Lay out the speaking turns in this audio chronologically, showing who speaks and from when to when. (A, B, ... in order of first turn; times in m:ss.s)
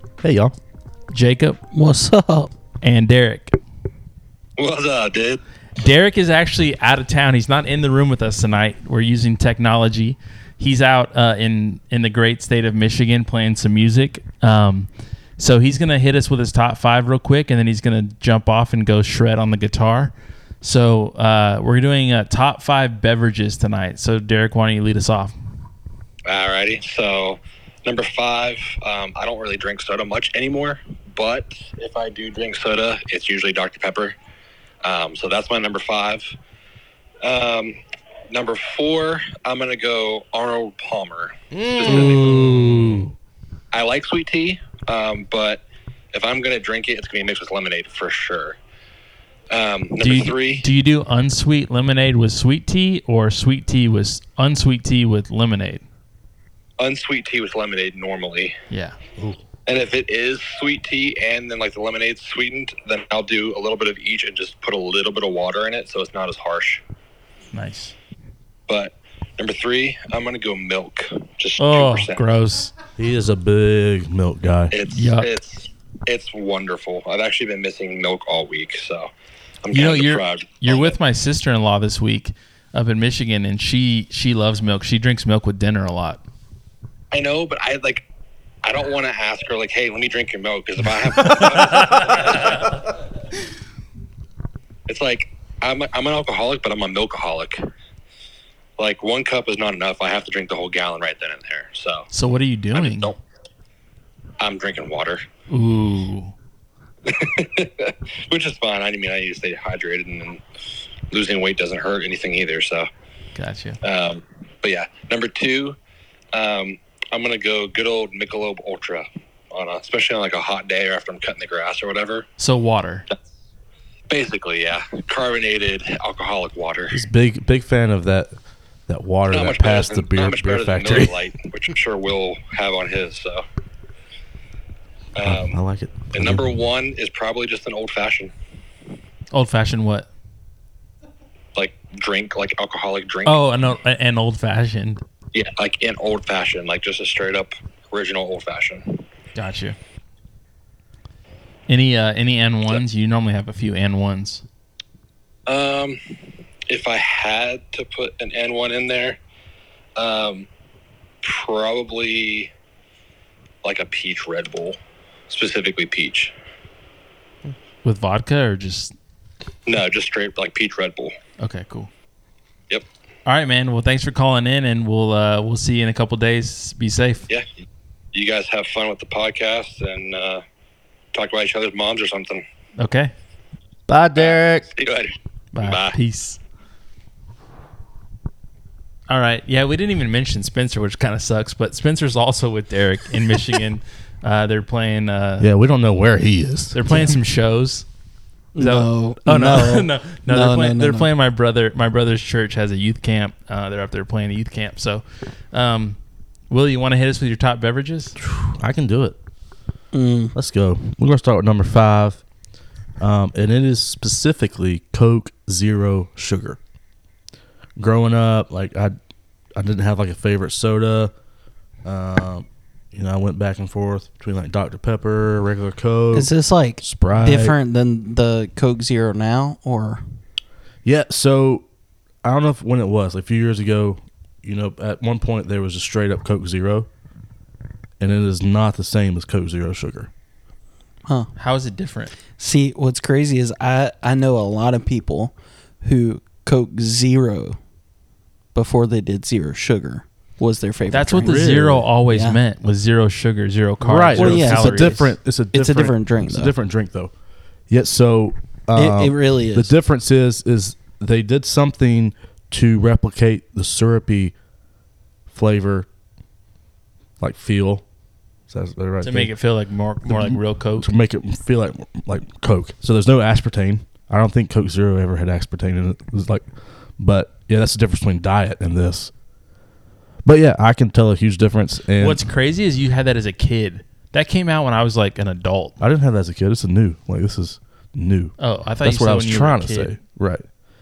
0:00.2-0:00.6 A
0:01.1-0:01.6 B
0:01.7-0:02.5 C
0:02.8-0:03.6 B
0:04.6-0:05.4 D
0:05.8-0:25.3 B
0:26.3-0:34.2 D
0:34.8-0:36.3 D
0:37.2-0:37.8 D
0:38.3-0:42.5 D
0:41.5-0:43.1 A
0:41.8-0:43.0 B
0:43.7-0:45.6 D
0:46.1-0:48.6 D
0:49.5-0:50.7 D
0:50.0-0:55.8 B
0:56.8-0:58.6 D
0:58.7-0:59.0 B
0:59.7-1:06.8 D
1:07.5-1:08.0 B
1:08.7-1:12.2 D
1:11.6-1:12.7 B
1:13.0-1:14.7 A
1:14.7-1:19.1 D
1:14.9-1:15.3 B
1:19.6-1:21.0 D
1:19.7-1:26.2 B
1:27.1-1:28.1 D
1:28.6-1:32.8 D
1:34.9-1:37.6 D
1:38.8-1:42.1 D
1:42.1-1:43.1 B
1:42.7-1:43.2 D
1:44.4-1:45.2 D
1:45.5-1:46.3 B
1:47.0-1:50.4 D
1:51.1-1:52.9 D
1:53.4-1:53.8 B
1:53.8-1:55.8 D
1:56.3-2:02.3 D
2:02.4-2:03.1 B
2:04.1-2:07.0 D
2:06.9-2:08.3 A
2:08.9-2:11.2 A
2:09.3-2:13.4 D
2:15.2-2:15.6 D
2:15.2-2:16.5 A
2:16.1-2:18.3 D
2:19.3-2:20.1 B
2:21.6-2:23.4 D
2:23.2-2:25.0 B
2:25.3-2:29.0 D
2:29.4-2:29.8 B
2:31.7-2:34.4 B
2:35.5-2:39.2 D
2:40.0-2:40.5 D
2:41.2-2:42.5 D
2:43.6-2:46.3 D
2:47.8-2:48.9 B
2:49.7-2:51.1 D
2:51.4-2:51.9 B
2:53.3-2:57.3 B
2:58.1-3:00.4 D
3:01.1-3:02.4 D
3:02.8-3:03.1 B
3:03.9-3:04.7 A
3:04.2-3:06.0 D
3:05.5-3:06.4 B
3:09.1-3:15.5 B
3:15.4-3:16.8 A
3:16.7-3:17.9 B
3:16.9-3:17.2 C
3:18.6-3:21.1 C
3:18.6-3:26.0 B
3:26.5-3:28.2 B
3:28.2-3:29.2 A
3:29.9-3:30.3 C
3:30.3-3:32.2 A
3:33.0-3:36.6 A
3:37.8-3:39.0 A
3:39.6-3:41.1 A
3:41.8-3:46.3 A
3:46.1-3:50.0 C
3:46.8-3:47.6 A
3:50.8-3:51.6 A
3:52.2-3:56.9 A
3:58.0-4:00.1 A
4:01.1-4:01.3 C
4:01.4-4:02.2 B
4:02.4-4:07.6 C
4:08.6-4:11.5 C
4:10.9-4:15.1 B
4:11.2-4:11.9 A
4:12.1-4:12.4 C
4:13.8-4:17.1 A
4:14.1-4:16.5 C
4:17.7-4:24.4 A
4:18.8-4:19.7 C
4:25.3-4:25.9 A
4:27.2-4:27.8 A
4:28.5-4:29.3 A
4:29.0-4:30.9 B
4:30.1-4:36.4 A
4:37.0-4:39.1 A
4:40.2-4:42.2 A
4:42.0-4:45.8 B
4:45.8-4:50.5 A
4:48.4-4:50.0 B